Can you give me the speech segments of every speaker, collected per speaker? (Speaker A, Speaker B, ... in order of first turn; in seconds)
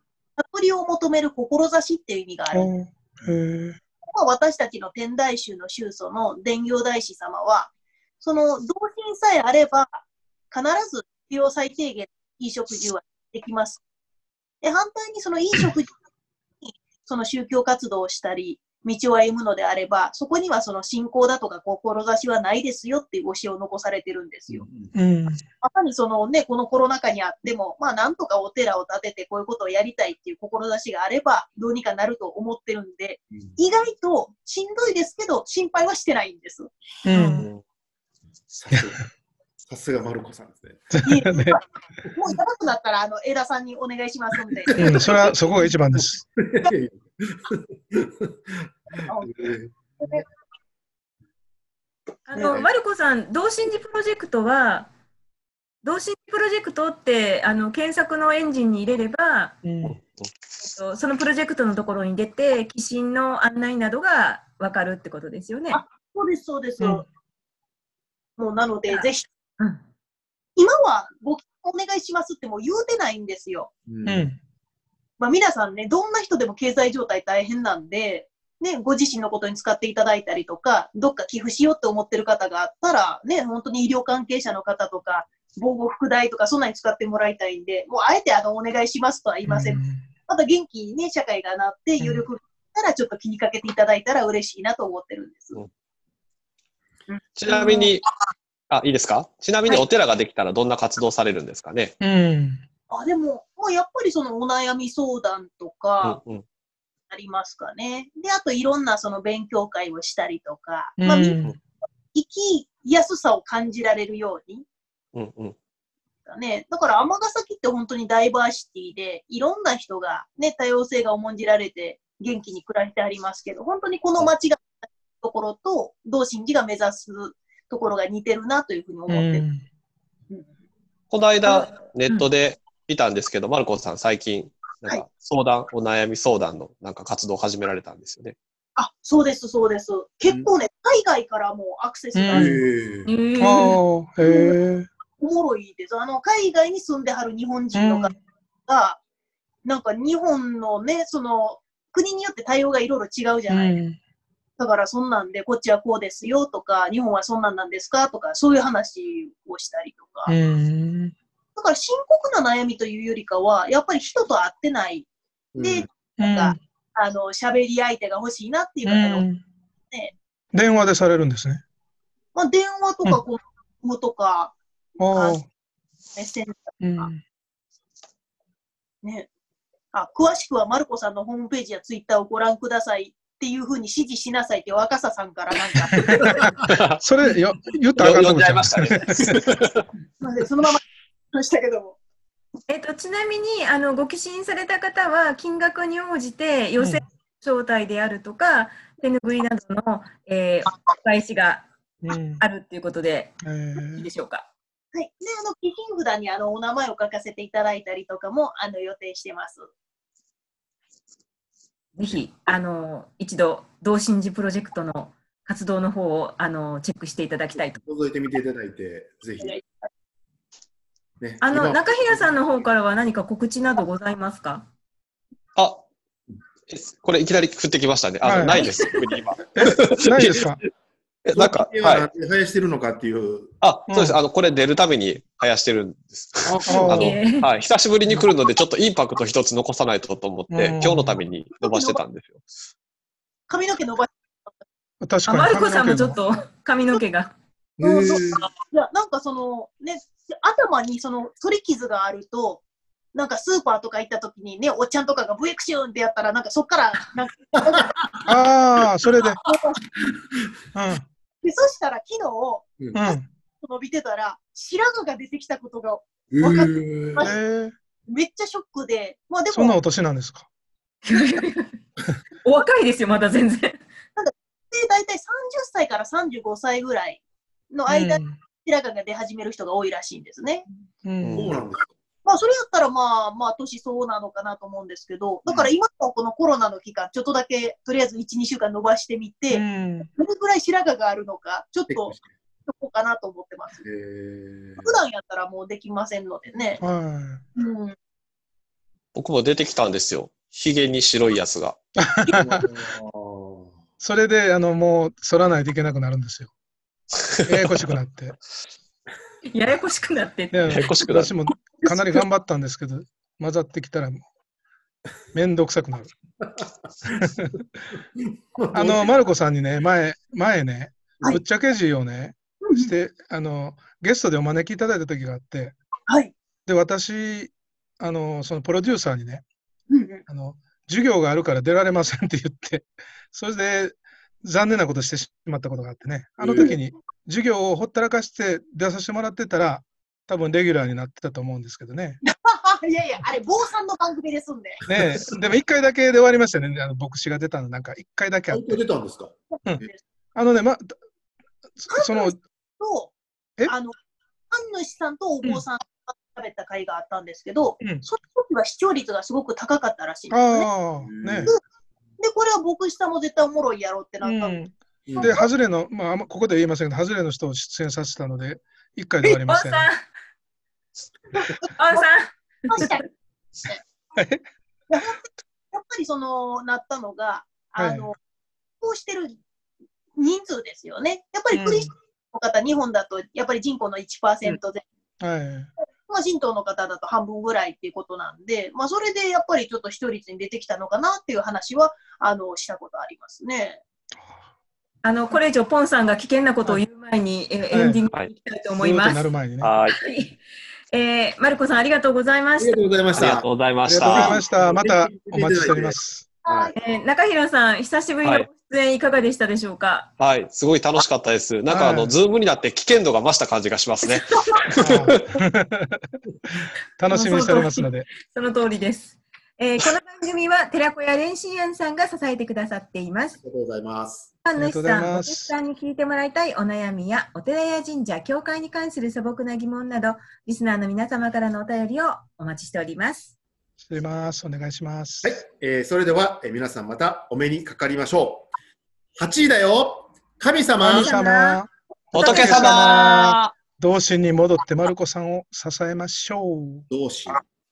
Speaker A: 0.4-2.7, 4.1-13.8, 14.6-16.0, 16.6-24.6, 25.6-37.4, 41.0-41.6, 42.1-45.3, 49.0-50.2, 65.7-67.0, 68.4-69.3, 70.5-73.7, 75.2-95.6, 97.1-97.9, 102.9-106.2, 107.1-111.4, 112.1-114.7, 116.2-129.4, 131.4-131.7, 138.8-142.6, 144.2-144.5, 145.2-148.1, 148.7-149.0, 149.6-153.8, 154.6-160.3, 161.6-165.1, 165.6-169.2, 172.3-174.6, 175.1-175.4, 176.2-177.1, 179.0-179.3, 179.9-186.5, 190.2-190.8, 191.3-192.0, 204.9-209.7, 219.4-219.8, 241.6-242.0, 243.5-244.1, 247.8-252.6, 253.1-258.0, 259.3-259.8, 261.4-267.3, 268.1-269.8, 274.2-280.6, 282.2-292.1, 292.7-293.8, 294.8-296.8, 297.6-297.9, 322.6-322.9, 326.1-326.3, 329.9-330.2, 342.2-344.8, 349.6-350.0, 351.9-353.1, 353.7-353.9, 354.5-360.7, 362.2-364.6, 365.2-365.5, 372.7-373.1, 374.9-375.2, 375.7-378.1, 378.8-379.4, 380.1-384.8, 386.1-393.8, 406.4-406.7
Speaker B: 2.5-3.8, 24.9-25.4, 37.0-37.5, 38.7-39.0, 40.9-41.6, 44.7-46.2, 59.6-60.0, 66.8-67.0, 74.0-74.4, 89.5-90.1, 102.0-102.6, 111.0-111.5, 129.1-129.6, 142.1-142.6, 143.4-144.9, 147.7-148.2, 153.5-154.0, 160.3-161.1, 166.2-166.6, 168.8-169.4, 170.5-171.6, 175.0-175.5, 176.8-177.2, 185.8-189.4, 196.8-197.0, 202.0-202.4, 203.4-204.1, 228.2-228.7, 229.6-230.6, 233.9-234.2, 236.6-237.2, 240.5-241.2, 245.0-246.2, 258.2-259.4, 260.7-261.1, 262.9-263.3, 267.2-267.7, 269.5-270.4, 277.9-278.4, 281.0-281.6, 289.5-290.1, 296.8-297.4, 302.0-302.7, 304.0-306.5, 307.4-308.4, 310.5-314.2, 315.3-316.1, 317.1-317.6, 318.7-325.8, 326.6-329.4, 330.3-342.2, 344.9-348.8, 349.6-350.9, 351.8-352.4, 357.8-358.1, 360.3-361.5, 364.2-369.9, 374.1-374.5, 377.8-378.1, 381.5-381.9, 385.2-385.7, 397.7-398.0, 398.8-399.8, 403.8-406.3, 411.7-412.1, 414.8-416.2, 417.0-418.1, 424.6-425.5, 433.8-435.4, 440.8-446.9
Speaker C: 24.5-24.9, 33.3-33.6, 38.5-39.0, 39.6-41.0, 44.7-45.1, 46.4-50.2, 52.4-52.7, 73.9-74.2, 142.3-143.1, 165.5-165.9, 217.5-219.6, 221.2-222.7, 231.3-233.6, 236.4-236.9, 247.8-248.5, 257.6-258.1, 266.3-267.3, 281.4-281.9, 291.9-292.3, 293.8-295.0, 302.3-303.8, 318.5-319.1, 336.4-336.7, 344.9-345.3, 348.5-349.3, 361.0-361.5, 365.1-365.4, 402.6-403.5, 404.0-406.7, 423.4-424.3, 435.2-438.5, 439.1-441.1, 446.9-447.4
Speaker D: 52.3-54.9, 55.8-59.6, 60.6-65.8, 143.1-143.8, 192.7-201.7, 202.4-204.4, 211.9-217.8, 221.4-224.7, 228.5-229.2, 236.9-237.5, 245.2-247.3, 271.1-271.7, 272.4-273.8, 309.5-310.8, 369.2-370.0, 371.8-373.0, 395.0-399.2, 399.9-400.4, 400.9-402.8, 406.7-410.1, 414.1-414.7, 417.1-423.4, 424.4-433.3, 440.8-441.6, 442.1-443.3
Speaker E: 59.9-60.3, 97.3-98.0, 98.7-102.0, 106.0-106.4, 115.1-115.5, 131.1-138.3, 186.7-187.0, 188.0-189.8, 225.6-225.8, 226.7-230.5, 231.2-232.1, 233.6-242.4, 281.2-281.5, 299.1-301.8, 310.7-311.3, 399.6-400.0, 403.1-404.4, 410.2-415.3, 442.1-443.5